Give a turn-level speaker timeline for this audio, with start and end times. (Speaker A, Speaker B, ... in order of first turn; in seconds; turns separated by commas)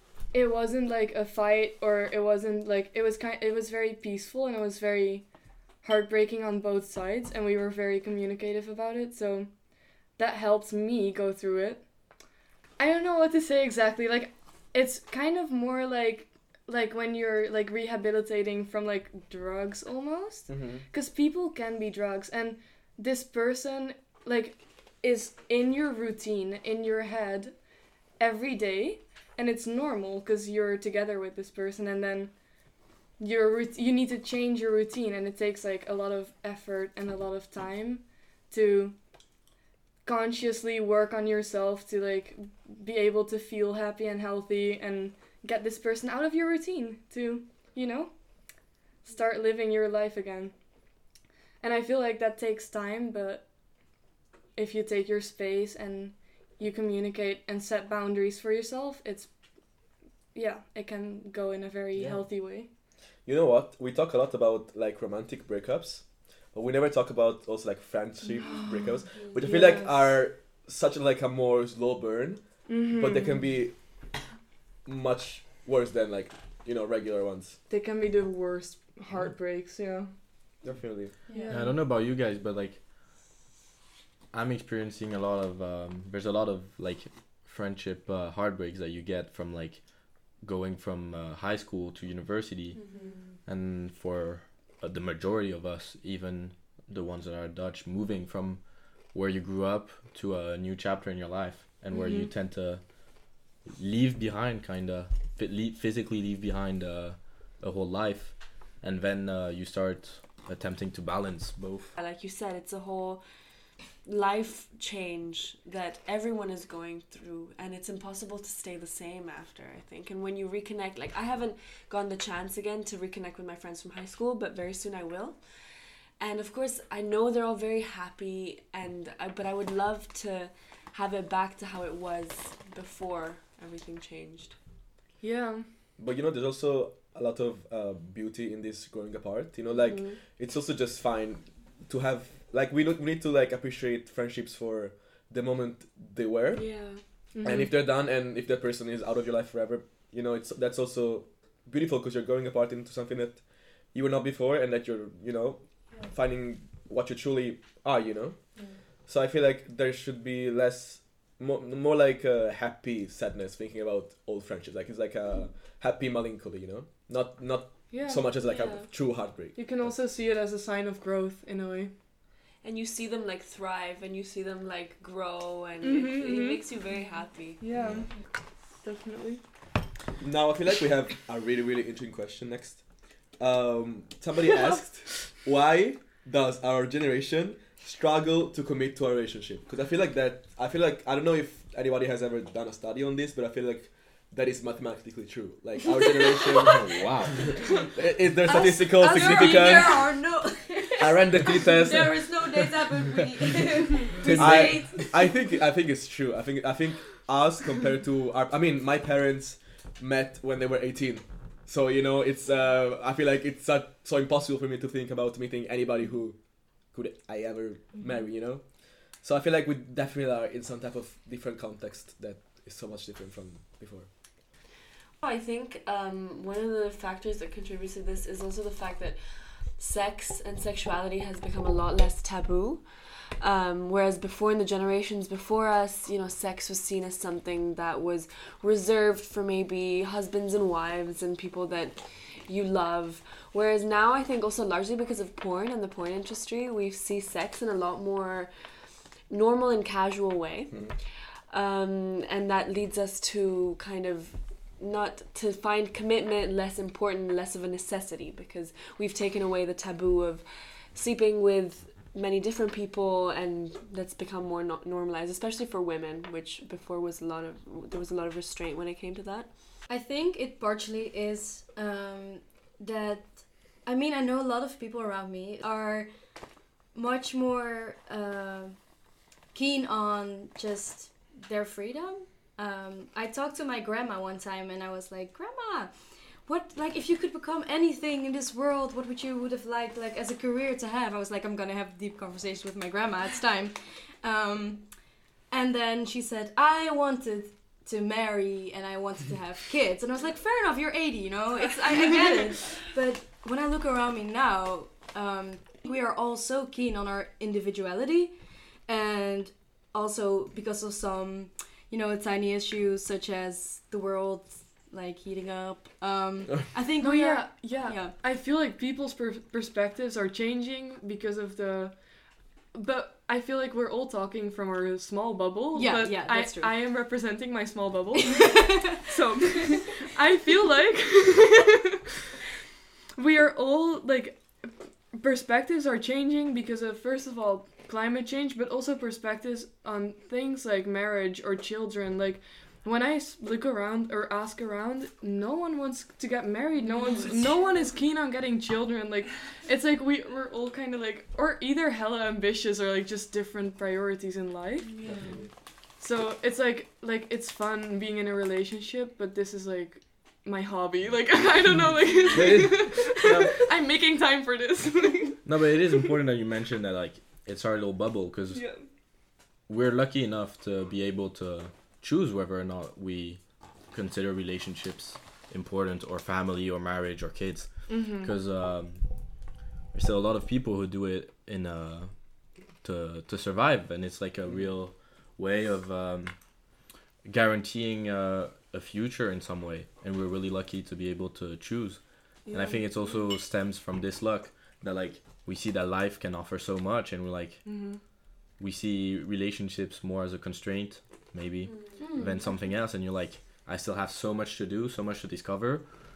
Speaker A: 0.3-5.2, Speaker A: 5.8-9.5, Speaker A: 10.2-11.8, Speaker A: 12.8-27.6, Speaker B: 20.5-20.8, Speaker A: 28.2-32.3, Speaker A: 33.2-39.0, Speaker A: 40.0-48.1, Speaker A: 49.0-50.5, Speaker A: 51.6-53.4, Speaker A: 54.5-59.3, Speaker A: 60.3-62.7, Speaker B: 63.2-66.0, Speaker B: 66.5-73.7, Speaker A: 68.4-70.2, Speaker A: 72.7-73.4, Speaker B: 74.8-77.6, Speaker A: 77.7-80.1, Speaker B: 80.6-81.2, Speaker C: 81.3-81.6, Speaker A: 81.3-81.7, Speaker D: 81.5-82.8, Speaker D: 84.3-89.8, Speaker D: 90.4-92.8, Speaker E: 92.8-93.2, Speaker D: 93.4-98.6, Speaker D: 99.1-102.8, Speaker A: 101.9-102.3, Speaker D: 103.7-111.9, Speaker E: 112.0-113.2, Speaker E: 114.0-125.4, Speaker E: 126.2-134.5, Speaker A: 135.2-135.6, Speaker B: 136.0-146.7, Speaker E: 146.5-147.0, Speaker A: 147.3-147.8, Speaker B: 147.4-158.3, Speaker B: 159.1-169.9, Speaker A: 167.9-168.8, Speaker A: 169.6-171.9, Speaker E: 172.6-177.6, Speaker A: 175.8-176.7, Speaker A: 177.6-178.1, Speaker B: 177.8-178.1, Speaker A: 178.8-179.4, Speaker B: 180.2-182.8, Speaker B: 183.4-196.9, Speaker C: 195.9-196.8, Speaker D: 196.6-197.4, Speaker B: 197.9-200.1, Speaker C: 198.4-205.3, Speaker A: 198.5-200.1, Speaker B: 201.0-202.4, Speaker D: 204.2-204.7, Speaker A: 204.2-204.9, Speaker B: 204.3-216.3, Speaker B: 216.9-218.6, Speaker B: 219.2-224.1, Speaker E: 225.2-229.2, Speaker E: 229.8-232.8, Speaker E: 233.4-241.9, Speaker E: 242.5-248.5, Speaker E: 249.3-250.8, Speaker E: 251.5-269.5, Speaker C: 269.9-273.3, Speaker C: 273.9-276.1, Speaker C: 276.9-278.8, Speaker C: 279.5-285.9, Speaker C: 286.4-294.9, Speaker C: 295.5-308.3, Speaker C: 308.9-318.1, Speaker A: 317.0-321.9, Speaker A: 322.7-332.0, Speaker C: 325.7-326.8, Speaker C: 328.1-329.1, Speaker A: 333.2-334.4, Speaker A: 335.1-354.9, Speaker E: 354.9-355.3, Speaker A: 356.0-365.4, Speaker D: 362.3-363.5, Speaker D: 365.4-368.6, Speaker A: 368.5-368.8, Speaker D: 369.7-373.4, Speaker D: 373.9-379.0, Speaker A: 377.9-378.3, Speaker D: 379.9-382.1, Speaker D: 382.8-386.3, Speaker D: 387.2-392.0, Speaker A: 392.5-392.9, Speaker D: 392.5-397.6, Speaker A: 397.6-398.0, Speaker D: 398.6-405.8, Speaker E: 401.6-401.9, Speaker C: 402.0-402.4